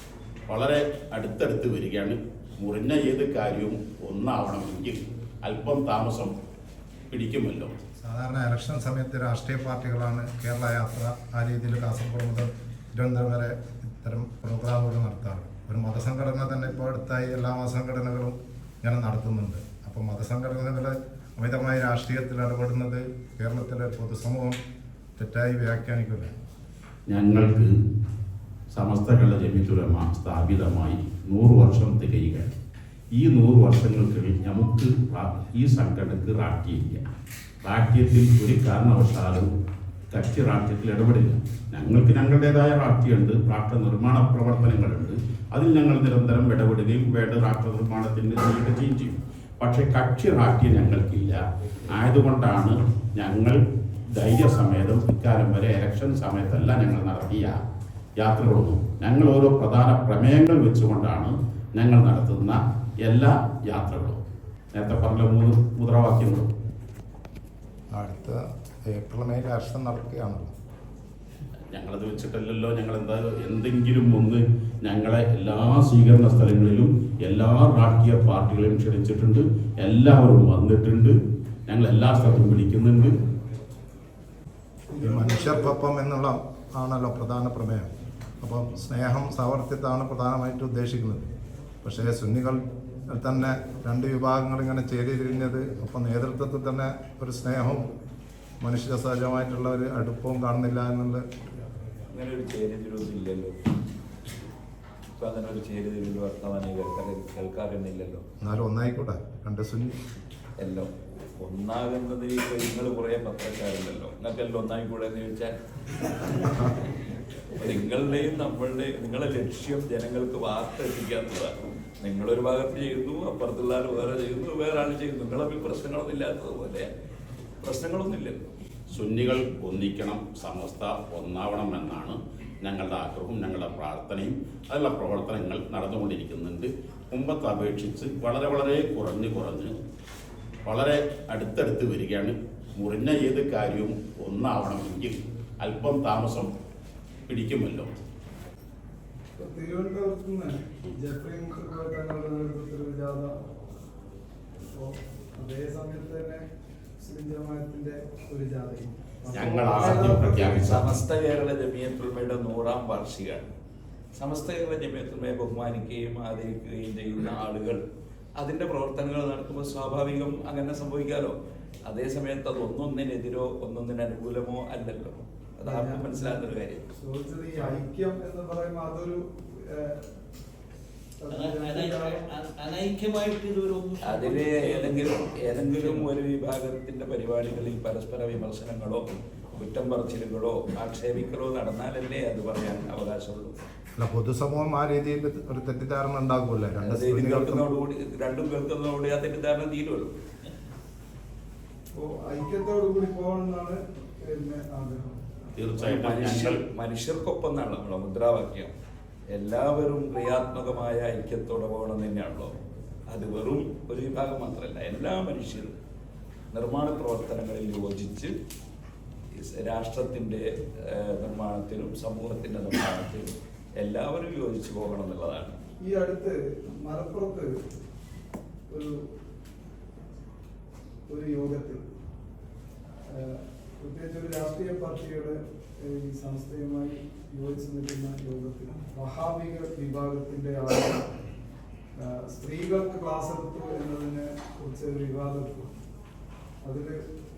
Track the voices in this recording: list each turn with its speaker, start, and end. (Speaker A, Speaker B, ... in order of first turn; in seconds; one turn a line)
Speaker A: 0.5-6.3
Speaker A: 7.1-7.7
Speaker B: 8.0-24.6
Speaker B: 25.2-26.3
Speaker A: 27.1-27.7
Speaker A: 28.7-32.5
Speaker A: 33.2-37.0
Speaker A: 37.6-39.5
Speaker A: 40.1-53.6
Speaker A: 54.1-57.6
Speaker A: 58.2-64.2
Speaker A: 64.7-66.5
Speaker B: 67.9-70.5
Speaker A: 71.7-81.1
Speaker A: 81.7-83.1
Speaker C: 84.9-85.7
Speaker B: 85.0-87.9
Speaker B: 88.4-91.3
Speaker B: 91.8-97.9
Speaker B: 98.6-101.2
Speaker D: 102.1-103.5
Speaker D: 105.2-108.2
Speaker B: 108.4-110.0
Speaker D: 110.6-115.6
Speaker D: 117.5-126.9
Speaker D: 127.6-128.5
Speaker A: 128.9-139.7
Speaker A: 140.6-146.5
Speaker A: 147.3-147.9
Speaker C: 149.3-153.3
Speaker C: 154.8-156.4
Speaker C: 157.0-160.4
Speaker A: 159.3-161.0
Speaker D: 159.7-163.5
Speaker D: 164.2-167.8
Speaker D: 168.4-176.8
Speaker C: 175.6-176.4
Speaker C: 177.0-180.0
Speaker C: 181.2-182.3
Speaker E: 181.3-185.6
Speaker D: 184.0-193.6
Speaker B: 194.0-197.6
Speaker D: 196.8-200.1
Speaker C: 201.9-205.2
Speaker A: 205.5-206.6
Speaker D: 205.8-208.7
Speaker D: 209.3-212.6
Speaker D: 213.1-215.7
Speaker D: 216.5-218.3
Speaker D: 219.3-225.6
Speaker C: 225.8-227.5
Speaker C: 228.7-228.9
Speaker C: 231.1-231.8
Speaker C: 233.1-241.0
Speaker C: 242.0-245.7
Speaker C: 246.6-247.0